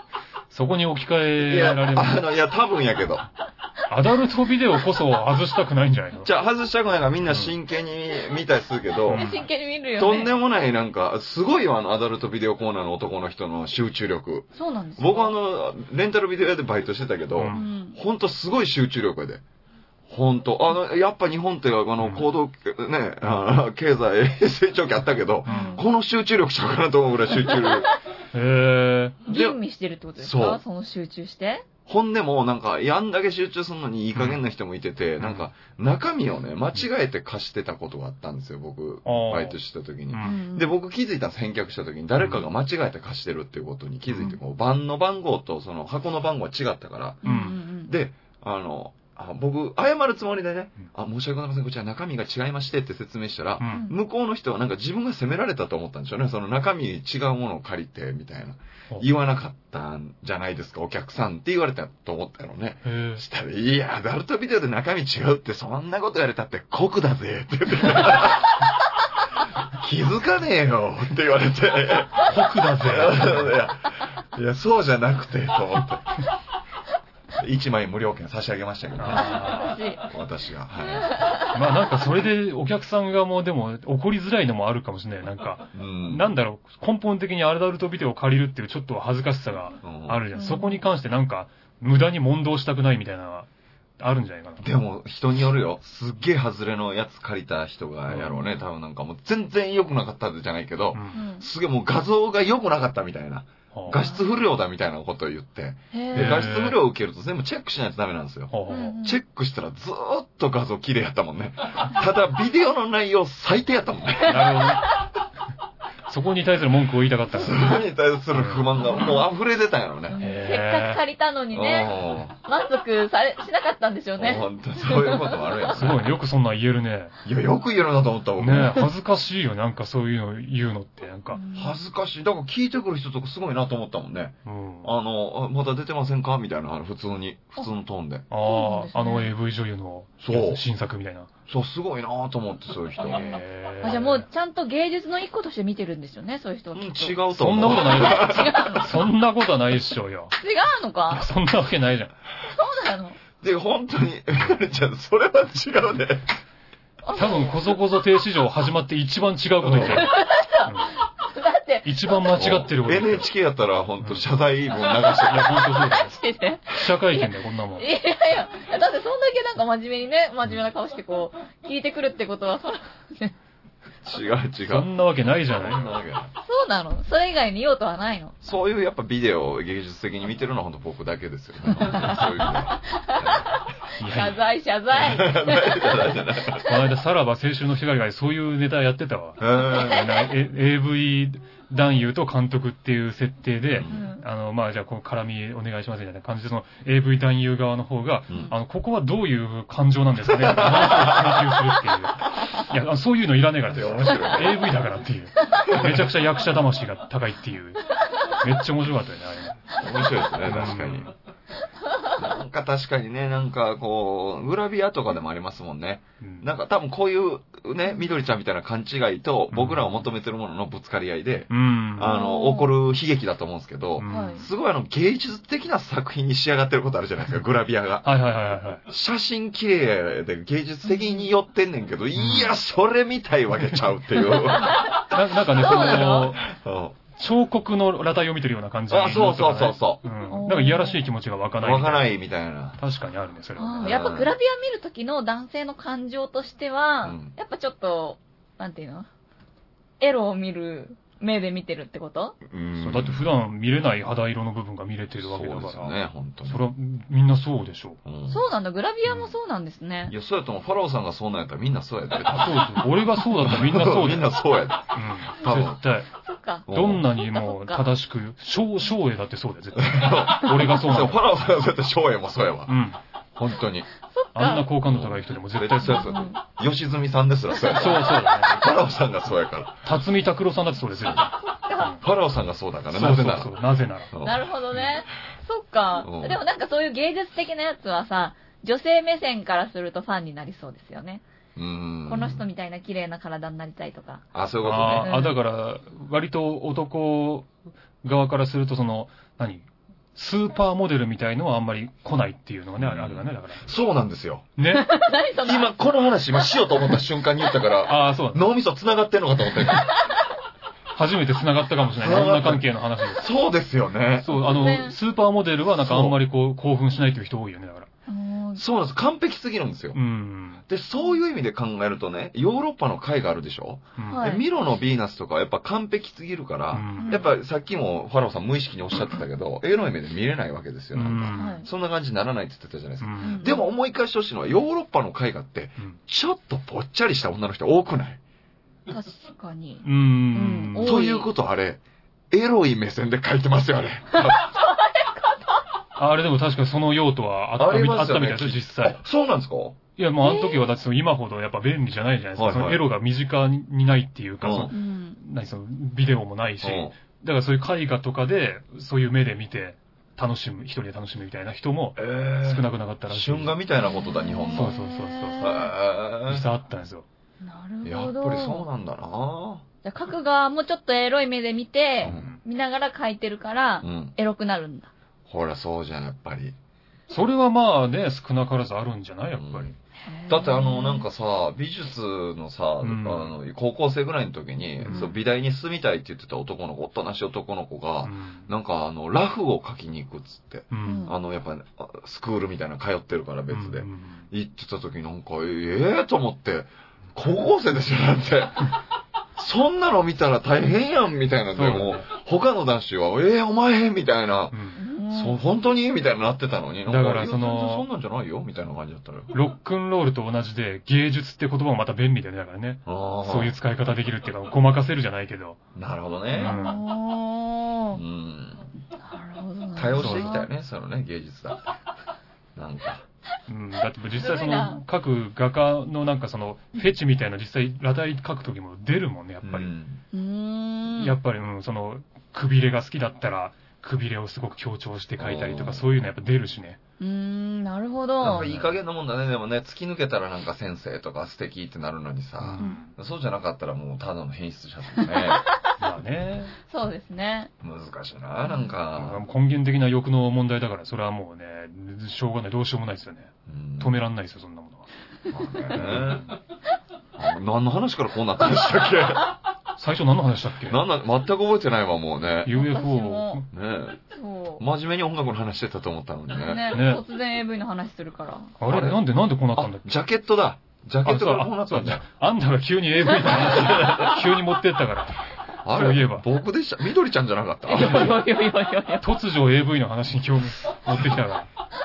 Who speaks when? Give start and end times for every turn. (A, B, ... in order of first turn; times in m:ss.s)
0:00.5-0:02.3 A
0:01.4-0:03.3 B
0:03.9-0:06.3 A
0:06.2-0:09.4 B
0:07.3-0:07.5 A
0:09.1-0:09.4 A
0:09.1-0:10.3 C
0:10.0-0:19.4 B
0:14.6-0:15.4 C
0:17.4-0:17.6 A
0:17.5-0:18.0 C
0:20.1-0:27.9 B
0:22.0-0:22.3 A
0:25.5-0:25.8 A
0:25.5-0:25.8 C
0:28.3-0:29.2 A
0:29.3-0:31.6 C
0:29.3-0:29.6 B
0:30.2-0:30.6 B
0:31.9-0:47.2 B
0:35.2-0:35.4 A
0:39.0-0:39.6 A
0:40.1-0:40.4 A
0:40.2-0:40.7 C
0:47.2-0:47.9 C
0:47.2-0:47.6 A
0:47.8-1:08.8 B
0:53.6-0:53.9 A
0:53.7-0:54.0 C
1:02.8-1:03.2 A
1:09.7-1:16.3 B
1:12.2-1:13.6 A
1:17.4-1:21.4 B
1:19.0-1:19.8 A
1:19.1-1:20.1 C
1:21.0-1:21.6 C
1:21.5-1:33.5 A
1:25.7-1:26.3 B
1:29.8-1:30.2 B
1:30.4-1:30.8 C
1:34.0-1:34.7 A
1:34.6-1:54.9 B
1:38.1-1:38.5 A
1:41.1-1:41.5 C
1:43.7-1:44.0 A
1:45.9-1:46.4 C
1:46.1-1:46.8 A
1:48.5-1:49.0 A
1:48.7-1:49.2 C
1:54.2-1:55.0 A
1:56.1-1:57.8 A
1:57.3-2:00.2 B
1:58.3-1:58.7 A
2:00.1-2:05.7 C
2:00.2-2:01.0 A
2:01.5-2:02.4 B
2:04.2-2:06.1 B
2:05.7-2:07.2 A
2:07.2-2:08.9 B
2:08.4-2:11.4 A
2:11.3-2:11.8 C
2:11.6-2:18.3 B
2:14.5-2:14.9 A
2:18.3-2:21.3 A
2:18.4-2:19.3 C
2:20.2-2:20.6 B
2:21.5-2:23.4 B
2:23.1-2:24.3 A
2:23.8-2:29.0 C
2:26.7-2:28.8 B
2:27.3-2:30.3 A
2:30.4-2:31.3 C
2:31.1-2:32.1 A
2:32.5-2:33.2 C
2:33.4-2:36.3 B
2:37.0-2:37.6 C
2:37.1-2:41.0 A
2:39.6-2:40.1 B
2:39.9-2:42.2 C
2:41.8-2:43.3 A
2:42.4-2:45.8 B
2:44.9-2:53.3 C
2:45.3-2:46.2 A
2:46.7-2:47.9 A
2:54.0-2:54.9 B
2:54.7-2:56.0 A
2:55.5-2:56.3 B
2:56.4-2:58.4 C
2:58.4-3:03.6 B
3:01.8-3:06.6 C
3:04.0-3:04.4 A
3:04.9-3:06.7 B
3:06.6-3:29.6 A
3:09.4-3:10.1 B
3:09.7-3:10.1 C
3:13.8-3:14.1 B
3:13.9-3:14.2 C
3:20.2-3:21.6 B
3:23.7-3:24.6 B
3:25.7-3:26.1 B
3:29.7-3:31.1 B
3:30.4-3:31.1 A
3:32.2-3:48.2 B
3:36.2-3:36.5 A
3:39.5-3:39.9 A
3:41.5-3:42.2 A
3:42.0-3:42.8 C
3:44.0-3:44.5 A
3:44.1-3:44.4 C
3:48.0-3:48.8 A
3:48.8-3:57.0 B
3:50.9-3:51.3 C
3:52.2-3:52.5 A
3:54.4-3:56.3 C
3:54.8-3:56.5 A
3:57.2-4:02.1 A
3:58.9-4:00.0 B
4:00.3-4:01.0 C
4:01.6-4:02.8 B
4:02.8-4:04.0 A
4:03.6-4:09.1 C
4:03.8-4:04.3 B
4:07.0-4:07.3 B
4:10.0-4:12.4 C
4:12.4-4:13.3 B
4:12.8-4:18.0 A
4:15.2-4:16.7 B
4:18.0-4:18.4 B
4:18.3-4:20.2 C
4:20.1-4:25.8 B
4:22.3-4:24.3 A
4:24.9-4:26.1 A
4:26.2-4:27.9 C
4:26.7-4:27.1 B
4:26.7-4:31.3 A
4:29.8-4:32.8 B
4:32.7-4:33.0 A
4:33.4-4:33.9 B
4:34.1-4:34.7 C
4:34.4-4:36.2 A
4:34.8-4:39.9 B
4:35.8-4:36.4 C
4:37.7-4:38.6 A
4:39.8-4:41.4 A
4:41.6-4:42.0 C
4:41.9-4:43.6 B
4:42.9-4:44.1 A
4:44.1-4:44.8 B
4:44.2-4:51.2 C
4:46.0-4:46.4 B
4:51.6-4:52.4 B
4:52.1-4:54.3 C
4:54.3-4:55.1 B
4:54.6-4:57.5 A
4:54.9-4:55.4 C
4:58.0-5:03.6 A
5:02.8-5:04.5 B
5:04.6-5:04.9 A
5:04.7-5:06.6 C
5:05.4-5:10.0 B
5:07.8-5:08.4 A
5:11.0-5:13.3 A
5:12.0-5:14.6 B
5:14.2-5:17.9 A
5:14.3-5:15.0 C
5:15.8-5:16.2 B
5:18.1-5:18.6 C
5:18.6-5:20.0 B
5:19.9-5:20.6 A
5:20.7-5:38.2 B
5:24.1-5:24.4 C
5:26.7-5:27.2 A
5:27.0-5:27.3 C
5:30.9-5:31.6 A
5:31.4-5:31.7 C
5:33.0-5:33.4 A
5:33.2-5:33.7 C
5:38.9-5:41.3 C
5:39.8-5:41.0 A
5:40.8-5:44.6 B
5:44.1-5:45.6 C
5:46.0-5:49.0 A
5:47.6-5:49.8 B
5:50.0-6:03.6 A
5:50.2-5:50.7 C
5:52.4-5:52.8 B
5:54.4-5:54.7 B
5:54.7-5:55.2 C
5:56.6-5:57.0 B
6:02.0-6:04.8 B
6:03.8-6:05.7 C
6:04.5-6:05.5 A
6:05.4-6:06.5 B
6:06.3-6:07.0 A
6:07.4-6:08.7 C
6:07.8-6:09.6 B
6:09.8-6:14.9 C
6:12.0-6:12.4 B
6:12.0-6:12.4 A
6:13.8-6:14.1 B
6:15.3-6:16.6 B
6:17.1-6:19.8 A
6:19.4-6:19.7 B
6:20.0-6:21.1 C
6:20.3-6:38.8 B
6:22.8-6:23.4 A
6:24.8-6:25.1 A
6:28.0-6:28.5 A
6:30.7-6:31.1 A
6:30.8-6:31.2 C
6:33.5-6:34.3 A
6:39.4-6:44.6 B
6:41.5-6:42.1 A
6:44.5-6:44.8 A
6:44.8-6:45.4 C
6:45.1-6:49.3 B
6:46.9-6:47.9 A
6:49.3-6:55.6 A
6:52.9-6:53.6 B
6:55.8-6:56.6 B
6:56.4-6:58.0 C
6:56.4-6:56.8 A
6:57.9-6:58.7 B
6:58.9-7:00.5 C
6:59.8-7:01.7 B
7:00.0-7:00.4 A
7:02.6-7:03.0 B
7:03.5-7:09.7 A
7:04.2-7:04.8 C
7:09.4-7:10.0 B
7:10.1-7:11.2 C
7:11.0-7:16.8 A
7:15.2-7:16.1 B
7:17.0-7:18.5 C
7:18.2-7:25.5 B
7:18.2-7:18.7 A
7:22.4-7:22.9 A
7:25.0-7:25.6 C
7:25.8-7:26.5 A
7:26.7-7:27.5 C
7:27.6-7:29.2 B
7:28.4-7:28.8 C
7:29.0-7:34.9 A
7:33.5-7:34.0 B
7:35.3-7:36.3 B
7:35.7-7:36.4 A
7:37.2-7:39.4 B
7:39.8-7:40.8 A
7:40.6-7:42.7 B
7:42.4-7:43.5 A
7:42.5-7:43.4 C
7:43.5-7:44.0 B
7:44.1-7:44.6 C
7:44.6-7:46.8 B
7:46.4-7:48.6 C
7:46.7-7:47.0 A
7:48.6-7:49.9 A
7:48.7-7:49.0 B
7:49.6-7:52.0 B
7:51.0-7:55.2 A
7:53.3-7:54.2 B
7:55.6-7:58.2 B
7:55.7-7:56.2 A
7:57.7-7:59.1 C
7:59.0-8:01.5 A
8:00.9-8:01.2 B